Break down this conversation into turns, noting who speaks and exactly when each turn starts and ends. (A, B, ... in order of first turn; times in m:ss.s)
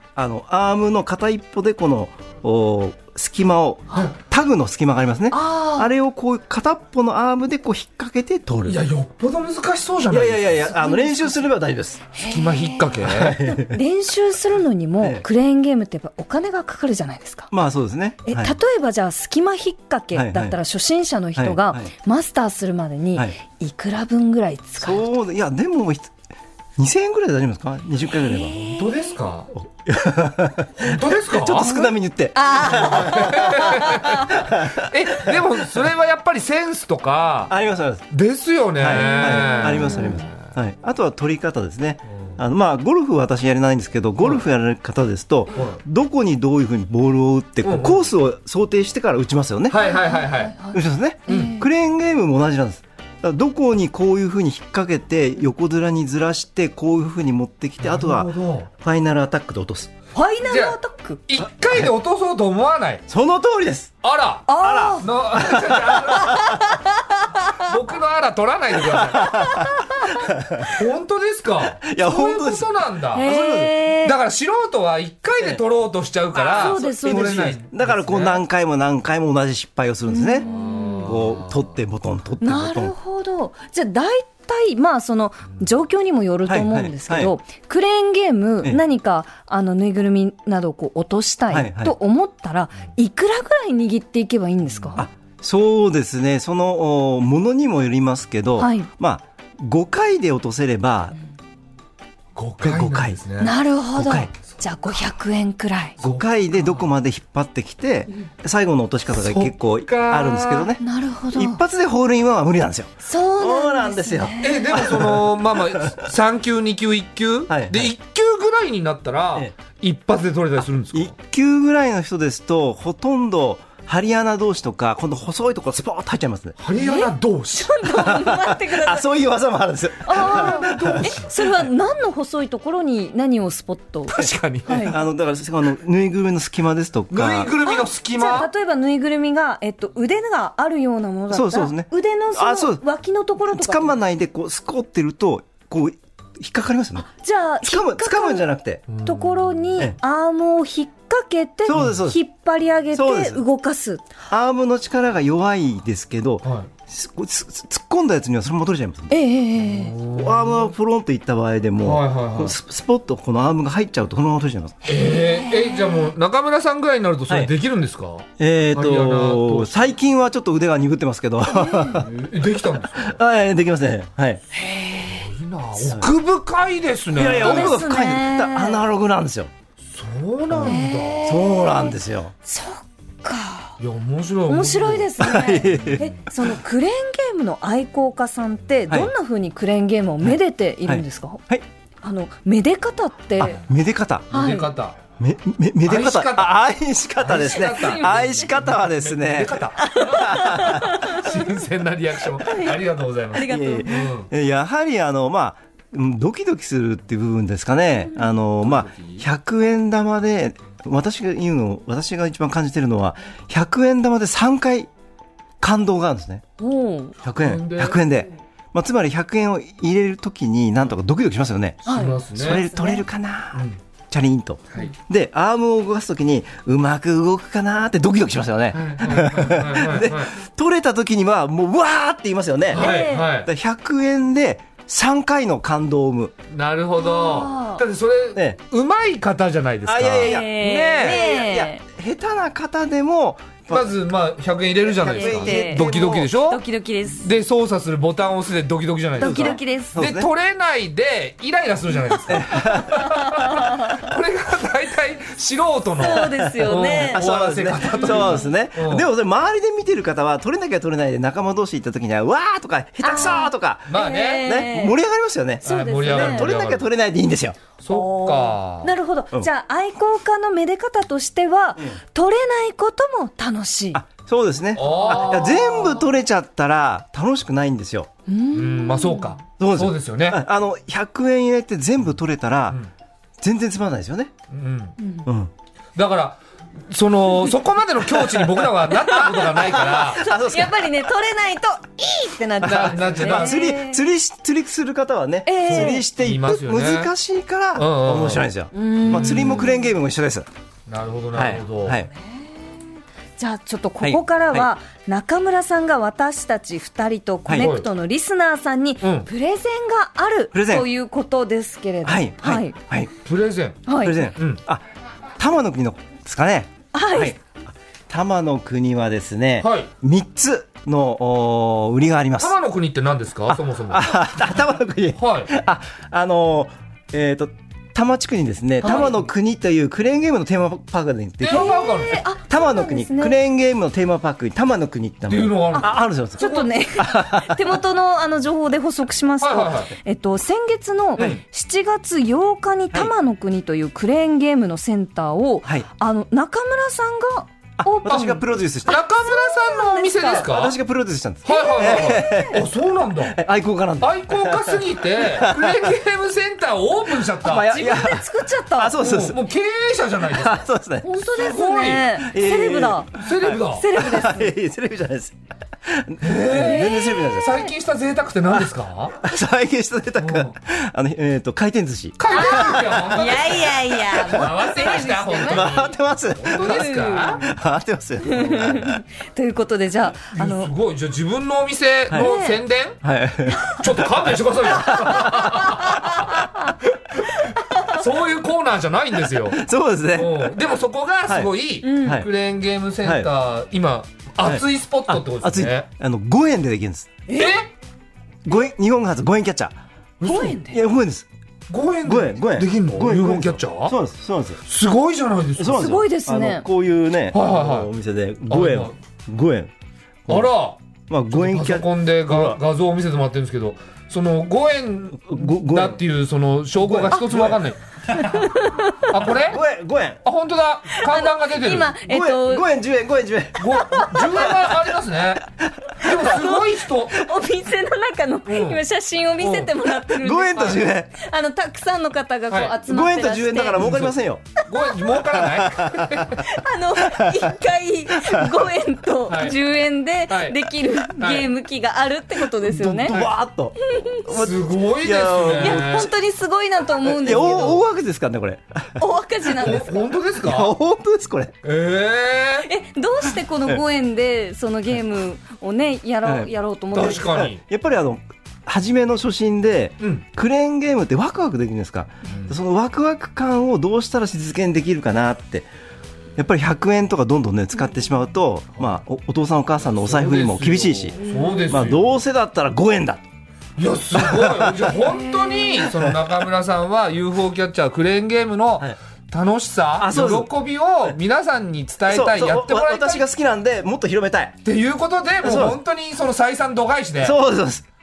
0:00.2-0:08.8 A
0:05.3-0:05.9 B
0:08.6-0:10.7 C
0:10.1-0:12.1 A
0:10.7-0:11.4 B
0:12.1-0:17.5 B
0:12.2-0:13.4 C
0:13.0-0:13.8 A
0:17.5-0:18.5 A
0:18.2-0:25.0 B
0:20.1-0:20.6 A
0:21.4-0:21.9 A
0:24.8-0:26.1 A
0:26.8-0:28.6 A
0:28.2-0:29.0 B
0:28.6-0:29.5 C
0:29.8-0:35.3 A
0:30.8-0:31.9 C
0:32.3-0:34.3 B
0:32.5-0:37.5 C
0:37.5-0:38.0 A
0:38.1-0:40.4 C
0:38.8-0:49.8 A
0:38.9-0:40.2 B
0:45.5-0:45.8 C
0:47.6-0:48.0 C
0:49.7-0:50.5 C
0:49.8-0:51.7 B
0:50.7-0:59.9 A
0:57.8-0:58.7 C
1:00.1-1:01.2 B
1:00.4-1:00.8 C
1:01.3-1:03.0 C
1:03.1-1:03.9 A
1:04.0-1:06.5 C
1:04.5-1:05.1 B
1:04.6-1:06.3 A
1:06.2-1:07.7 B
1:07.5-1:09.5 C
1:08.8-1:10.7 A
1:09.2-1:10.2 B
1:10.7-1:13.3 C
1:11.8-1:12.6 A
1:13.1-1:14.2 B
1:13.2-1:13.8 A
1:14.0-1:18.4 C
1:16.4-1:17.4 B
1:16.5-1:20.5 A
1:20.1-1:21.1 B
1:20.4-1:21.7 C
1:21.0-1:22.9 A
1:22.4-1:35.0 B
1:26.5-1:27.3 A
1:31.5-1:31.9 A
1:35.0-1:41.2 A
1:38.6-1:38.9 B
1:42.4-1:43.5 C
1:42.6-1:43.2 A
1:43.4-1:46.0 B
1:44.0-1:44.3 A
1:46.0-1:46.8 C
1:46.0-1:56.0 A
1:49.1-1:50.7 C
1:50.8-1:51.6 B
1:53.0-1:54.7 B
1:54.4-2:01.1 C
1:57.5-1:57.9 A
2:00.9-2:06.6 A
2:06.6-2:07.8 C
2:06.8-2:09.1 B
2:07.9-2:11.1 A
2:10.0-2:15.0 B
2:10.1-2:11.3 C
2:14.1-2:14.8 C
2:14.2-2:17.5 A
2:17.1-2:18.5 C
2:17.6-2:23.9 B
2:21.3-2:22.8 A
2:23.4-2:27.1 A
2:27.0-2:28.5 B
2:27.6-2:28.9 A
2:28.9-2:29.5 C
2:29.0-2:34.1 B
2:31.6-2:32.2 A
2:32.9-2:33.4 A
2:34.3-2:39.2 A
2:36.4-2:36.7 C
2:39.1-2:39.9 B
2:39.7-2:40.7 C
2:40.1-2:44.8 A
2:41.8-2:42.5 C
2:44.8-2:49.9 C
2:45.0-2:46.0 B
2:48.4-2:52.1 A
2:51.5-2:52.0 B
2:51.9-2:53.2 C
2:53.0-2:54.4 A
2:54.5-2:55.3 B
2:55.0-2:57.8 C
2:55.8-2:56.1 A
2:57.1-2:59.5 A
2:57.3-2:58.8 B
2:59.9-3:01.4 C
3:00.5-3:02.3 A
3:00.6-3:03.8 B
3:03.8-3:06.0 C
3:04.5-3:11.4 B
3:05.2-3:06.2 A
3:10.2-3:11.6 A
3:12.0-3:13.6 B
3:13.4-3:14.3 A
3:14.3-3:15.0 C
3:14.3-3:14.7 B
3:15.2-3:21.0 A
3:15.8-3:16.6 C
3:17.2-3:24.3 C
3:17.4-3:18.5 B
3:19.8-3:21.5 B
3:22.4-3:22.8 B
3:23.3-3:23.9 B
3:23.4-3:34.9 A
3:28.6-3:29.2 C
3:35.6-3:36.4 A
3:36.6-3:37.1 B
3:37.2-3:41.8 A
3:37.4-3:38.0 C
3:41.8-3:42.6 C
3:41.8-3:43.0 B
3:42.3-3:56.3 A
3:48.7-3:50.3 C
3:52.7-3:53.3 B
3:52.7-3:53.5 C
3:56.5-4:01.3 C
3:57.0-3:57.8 B
3:59.8-4:04.0 A
4:00.2-4:01.8 B
4:03.7-4:06.6 C
4:05.0-4:07.3 B
4:05.0-4:06.3 A
4:07.2-4:19.1 C
4:09.2-4:10.0 B
4:09.2-4:10.3 A
4:12.3-4:13.1 A
4:13.0-4:14.0 B
4:16.0-4:17.2 B
4:16.3-4:27.6 A
4:17.9-4:18.5 B
4:23.0-4:25.0 B
4:23.9-4:24.6 C
4:25.6-4:26.5 B
4:25.6-4:26.9 C
4:27.8-4:28.9 C
4:27.9-4:34.0 B
4:33.9-4:38.1 A
4:34.7-4:35.8 C
4:34.8-4:36.0 B
4:38.3-4:39.4 B
4:38.5-4:40.4 C
4:39.6-4:42.8 A
4:43.4-4:44.3 A
4:44.5-4:45.0 C
4:45.0-4:45.3 B
4:45.2-4:45.5 A
4:46.0-4:50.2 C
4:48.0-4:48.7 A
4:48.9-4:54.0 B
4:49.6-4:50.9 A
4:52.6-5:00.5 A
4:52.6-4:53.6 C
4:55.4-4:56.0 B
4:55.6-4:57.1 C
4:57.7-4:58.5 C
4:58.7-4:59.9 B
4:59.1-4:59.7 C
5:00.9-5:02.0 C
5:01.3-5:02.1 A
5:02.2-5:02.5 B
5:03.4-5:12.7 B
5:04.0-5:04.7 A
5:07.4-5:07.7 A
5:07.5-5:07.9 C
5:09.0-5:09.3 C
5:10.5-5:10.9 A
5:12.0-5:13.1 A
5:13.2-5:14.6 C
5:13.8-5:14.2 B
5:14.0-5:14.8 A
5:15.4-5:22.6 A
5:16.9-5:17.3 B
5:19.6-5:19.9 C
5:22.4-5:24.2 C
5:23.5-5:31.8 A
5:25.2-5:25.5 C
5:28.8-5:29.1 B
5:28.8-5:29.2 C
5:31.4-5:32.2 C
5:31.4-5:33.4 B
5:32.5-5:37.8 A
5:35.3-5:36.7 C
5:35.7-5:50.5 B
5:39.4-5:39.9 C
5:41.2-5:41.4 C
5:47.8-5:49.0 A
5:48.1-5:48.3 C
5:48.8-5:50.8 C
5:50.3-5:52.7 A
5:51.4-5:52.6 B
5:51.4-5:53.4 C
5:53.3-5:55.8 A
5:54.0-5:58.1 C
5:57.4-5:59.4 A
5:57.7-5:59.0 B
5:59.0-6:00.7 C
6:00.3-6:01.1 A
6:01.0-6:04.5 B
6:01.2-6:02.2 C
6:02.2-6:07.6 A
6:03.1-6:03.9 C
6:06.2-6:09.2 C
6:06.5-6:07.7 B
6:09.2-6:12.9 A
6:10.2-6:10.5 C
6:12.2-6:17.4 C
6:12.3-6:15.7 B
6:15.5-6:19.0 A
6:16.6-6:17.5 B
6:18.2-6:20.7 B
6:20.3-6:23.0 C
6:22.1-6:22.3 A
6:22.2-6:22.6 B
6:23.0-6:25.7 A
6:23.7-6:29.6 C
6:25.6-6:26.4 B
6:27.6-6:28.0 B
6:29.5-6:30.7 A
6:30.1-6:35.9 C
6:31.8-6:32.2 B
6:32.0-6:32.3 A
6:33.0-6:33.3 A
6:34.4-6:37.2 A
6:37.3-6:37.6 B
6:37.3-6:37.7 C
6:38.4-6:39.8 A
6:40.2-6:40.6 C
6:40.2-6:40.8 B
6:40.6-6:41.3 A
6:41.7-6:44.0 C
6:42.0-6:44.6 A
6:44.6-6:46.0 C
6:45.6-6:49.7 A
6:45.7-6:46.6 B
6:47.3-6:47.9 C
6:48.5-6:48.9 C
6:50.3-6:50.8 C
6:51.1-6:52.6 A
6:51.3-6:58.5 C
6:55.3-6:56.0 A
6:56.8-6:57.6 A
6:58.1-6:59.1 B
6:59.1-6:59.6 C
6:59.3-7:00.2 A
7:00.2-7:01.9 C
7:00.9-7:02.6 B
7:02.0-7:03.7 A
7:03.6-7:07.2 C
7:03.6-7:04.5 B
7:05.6-7:06.0 A
7:06.0-7:13.9 B
7:08.5-7:08.8 C
7:09.4-7:09.7 C
7:10.1-7:11.1 A
7:12.5-7:12.8 C
7:12.8-7:14.5 A
7:13.8-7:14.1 C
7:14.6-7:14.9 B
7:14.7-7:16.4 C
7:15.2-7:16.4 A
7:16.3-7:23.1 B
7:17.0-7:17.5 A
7:18.1-7:18.7 A
7:19.3-7:19.6 C
7:20.3-7:21.5 C
7:22.6-7:26.1 A
7:23.1-7:23.3 C
7:23.8-7:24.2 B
7:24.3-7:26.1 C
7:25.6-7:27.8 B
7:27.0-7:29.0 A
7:29.0-7:30.0 B
7:29.5-7:30.7 C
7:30.4-7:31.5 A
7:31.6-7:32.7 C
7:32.6-7:37.4 B
7:36.2-7:36.5 A
7:36.9-7:37.6 C
7:37.3-7:45.7 A
7:42.3-7:42.6 C
7:46.4-7:53.2 A
7:49.9-7:52.2 C
7:51.2-7:51.8 B
7:53.8-8:03.2 C
7:54.1-7:54.9 A
7:55.1-7:55.9 B
8:00.0-8:00.5 A
8:02.1-8:04.6 A
8:04.6-8:07.4 C
8:05.4-8:05.8 A
8:07.2-8:07.8 A